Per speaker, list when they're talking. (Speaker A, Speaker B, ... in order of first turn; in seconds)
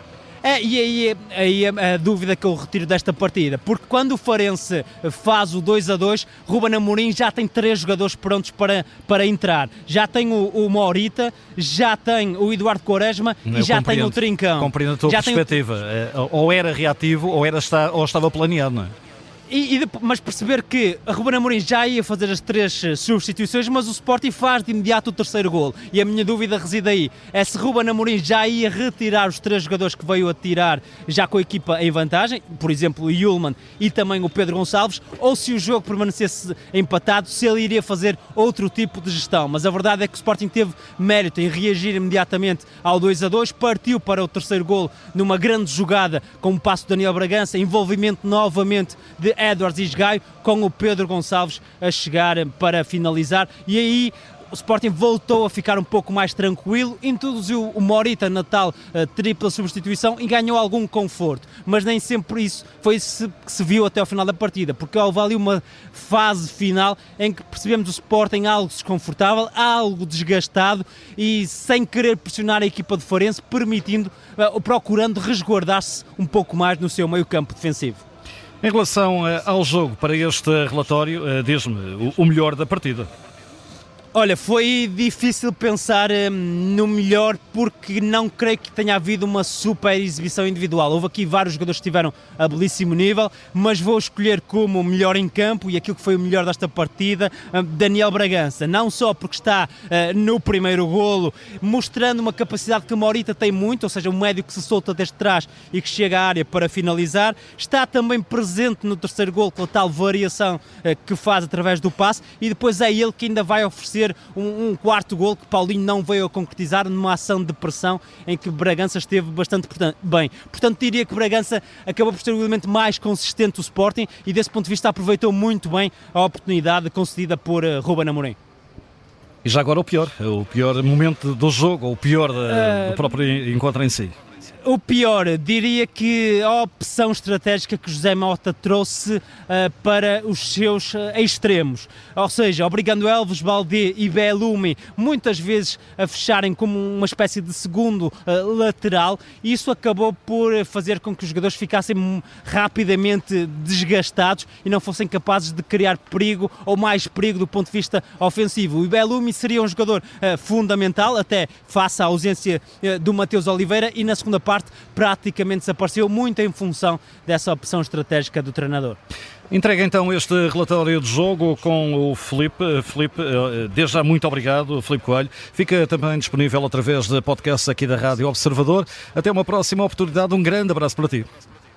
Speaker A: 0.4-15.5, 19.5-78.0, 84.1-128.4, 132.5-133.0, 134.6-169.0
Speaker B: 13.5-18.9, 78.6-83.1, 129.4-134.1, 169.5-181.2